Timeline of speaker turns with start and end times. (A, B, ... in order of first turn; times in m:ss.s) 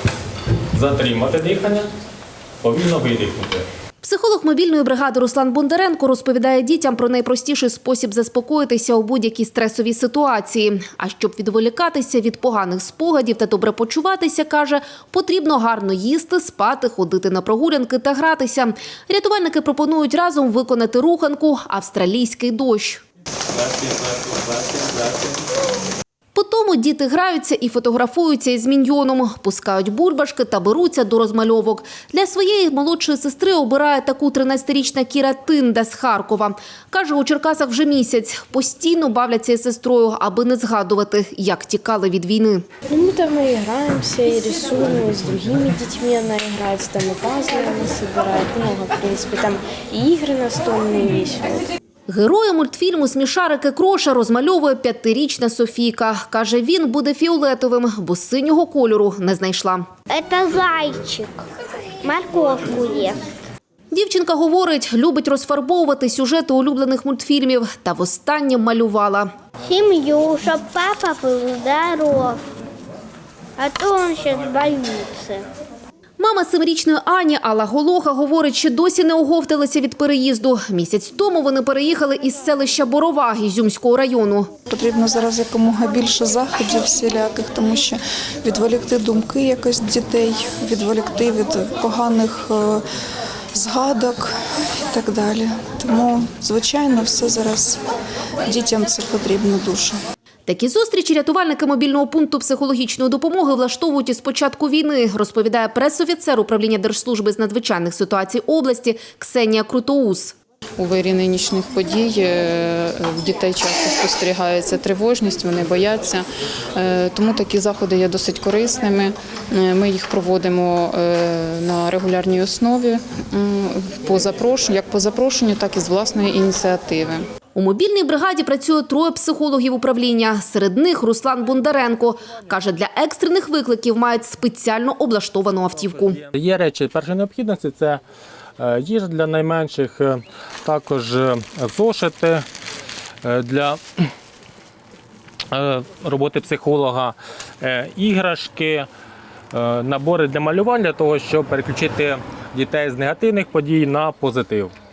0:00.7-0:01.9 A
0:02.6-0:03.7 A
0:04.0-0:23.0 B
0:23.6-0:25.3 A
0:26.3-0:42.6 B
0:42.9-0:51.7 C
0:52.1-0:59.9 B
1:00.1-1:01.4 D
1:02.0-1:03.2 D
1:03.9-1:09.3 B
1:09.6-1:12.4 D
1:13.6-1:15.5 D
1:16.2-1:24.5 B
1:24.7-1:32.8 E
1:33.5-1:34.3 E
1:34.9-1:37.8 E
1:38.4-1:40.0 E
1:40.5-1:50.3 B
1:50.8-2:07.2 F
2:07.6-2:16.2 B
2:16.2-2:18.0 A
2:18.6-2:22.4 A
2:23.2-2:24.1 A
2:25.5-2:28.9 A
2:29.5-2:34.7 A